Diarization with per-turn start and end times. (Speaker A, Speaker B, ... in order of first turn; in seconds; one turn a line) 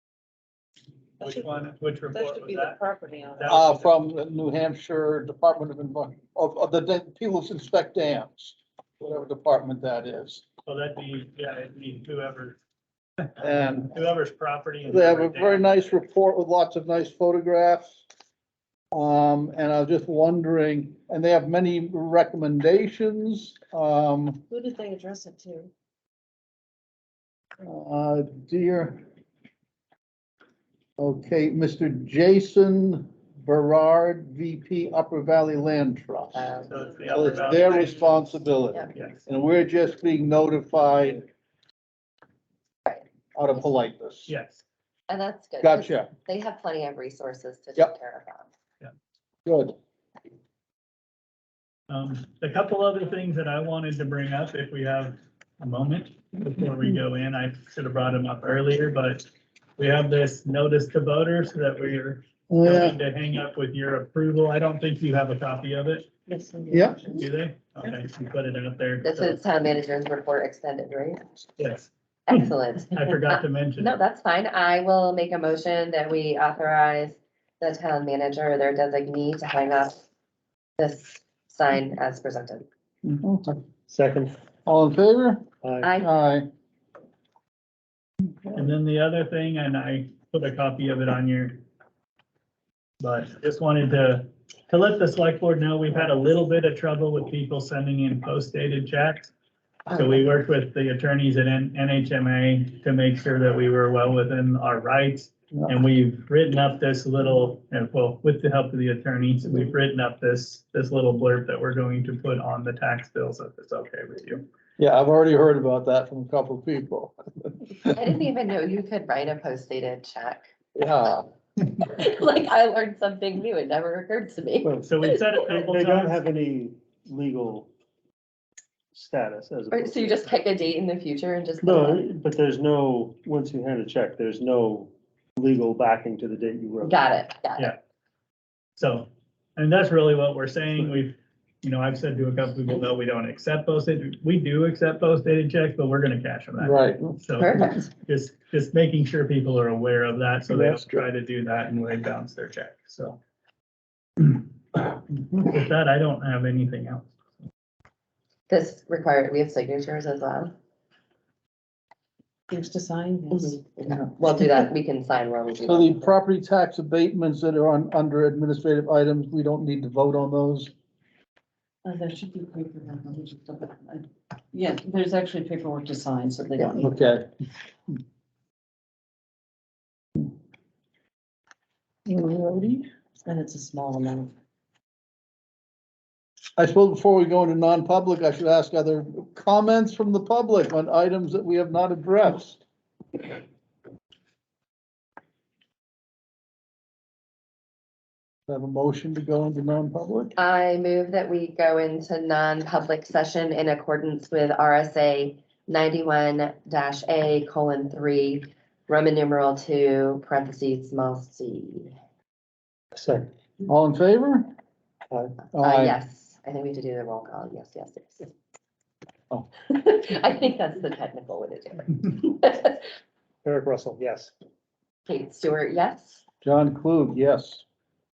Speaker A: 1.2-2.8
Speaker B: 2.1-3.5
Speaker A: 3.4-3.9
Speaker C: 3.5-10.4
Speaker A: 10.7-12.6
Speaker C: 13.4-13.9
Speaker A: 13.8-16.0
Speaker C: 14.9-18.0
Speaker C: 18.9-24.4
Speaker B: 24.5-25.7
Speaker C: 27.6-29.0
Speaker C: 31.0-36.4
Speaker D: 36.3-36.7
Speaker A: 36.7-38.3
Speaker C: 37.1-41.3
Speaker A: 38.9-39.2
Speaker D: 42.9-43.7
Speaker C: 43.3-44.3
Speaker A: 44.3-44.6
Speaker D: 45.1-48.5
Speaker C: 45.6-46.1
Speaker C: 49.4-49.7
Speaker A: 51.9-59.2
Speaker A: 59.8-66.1
Speaker C: 62.5-63.0
Speaker B: 66.3-67.2
Speaker C: 66.7-67.0
Speaker A: 67.2-69.4
Speaker D: 69.0-71.4
Speaker A: 71.6-71.9
Speaker D: 72.3-80.0
Speaker A: 72.9-74.0
Speaker D: 80.8-82.6
Speaker C: 83.0-83.6
Speaker E: 83.9-84.3
Speaker C: 84.7-85.5
Speaker E: 85.6-85.9
Speaker D: 85.8-86.1
Speaker C: 86.0-86.5
Speaker A: 88.5-91.6
Speaker A: 93.0-99.3
Speaker A: 99.9-114.4
Speaker C: 114.8-118.0
Speaker D: 117.9-120.5
Speaker C: 120.8-121.3
Speaker D: 121.8-125.2
Speaker E: 124.6-127.7
Speaker A: 124.8-126.2
Speaker E: 128.9-130.3
Speaker D: 129.7-132.0
Speaker E: 131.6-137.0
Speaker D: 136.8-137.7
Speaker A: 138.8-153.2
Speaker C: 146.6-147.2
Speaker D: 147.4-147.9
Speaker C: 150.5-151.0
Speaker A: 154.2-157.1
Speaker D: 158.5-160.5
Speaker B: 162.5-163.6
Speaker D: 163.3-166.1
Speaker C: 165.6-170.7
Speaker B: 171.8-176.9
Speaker C: 176.6-177.3
Speaker C: 182.1-182.8
Speaker B: 183.2-184.3
Speaker C: 186.6-192.6
Speaker C: 198.5-200.3
Speaker D: 200.4-211.9
Speaker E: 212.9-213.3
Speaker C: 213.6-214.5
Speaker E: 215.1-215.3
Speaker C: 215.5-216.0
Speaker D: 215.6-218.3
Speaker D: 219.7-222.8
Speaker E: 223.4-224.3
Speaker D: 225.1-226.2
Speaker C: 226.4-227.6